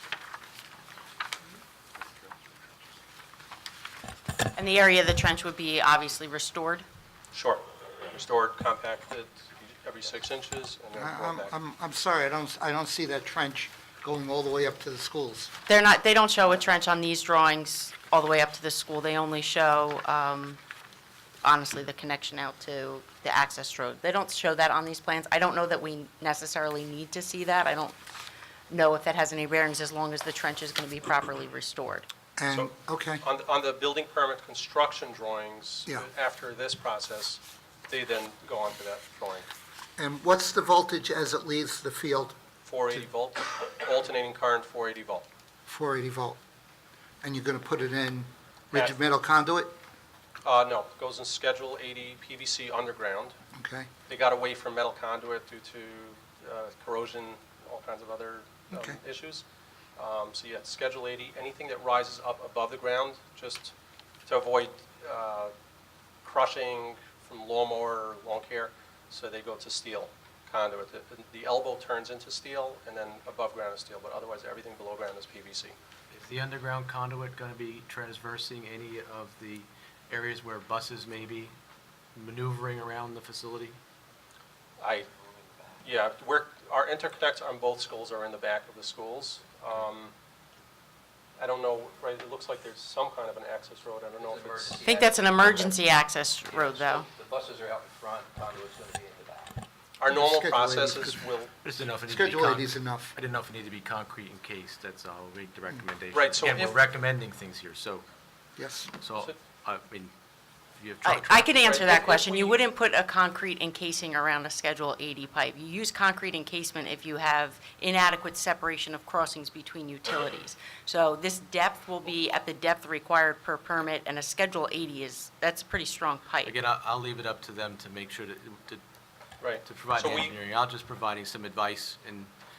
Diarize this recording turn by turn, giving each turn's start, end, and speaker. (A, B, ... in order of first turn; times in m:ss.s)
0:04.5-0:06.8 A
0:07.3-0:11.5 B
0:10.9-0:15.5 C
0:15.7-0:20.6 A
0:21.4-0:28.0 A
0:28.7-0:32.1 A
0:32.4-0:33.2 C
0:32.5-0:39.5 B
0:40.0-0:42.4 C
0:42.6-0:45.2 B
0:45.7-0:46.4 C
0:47.2-0:49.7 C
0:50.4-0:53.4 B
0:53.5-0:53.9 C
0:54.1-1:03.7 B
0:58.7-0:59.0 C
1:04.2-1:05.5 B
1:06.2-1:15.8 B
1:16.1-1:21.5 D
1:22.1-1:23.8 D
1:24.8-1:25.1 B
1:25.2-1:25.8 E
1:25.8-1:30.1 B
1:31.4-1:34.9 B
1:34.2-1:35.8 E
1:34.8-1:37.1 A
1:36.5-1:39.6 E
1:40.0-1:41.5 B
1:40.1-1:41.2 C
1:41.6-1:48.0 D
1:42.1-1:43.1 C
1:46.1-1:46.8 B
1:48.6-1:48.9 C
1:49.0-1:50.1 D
1:50.8-1:51.6 D
1:51.0-2:06.6 A
1:51.6-1:52.6 B
2:06.4-2:08.8 D
2:09.4-2:10.3 B
2:09.6-2:12.3 D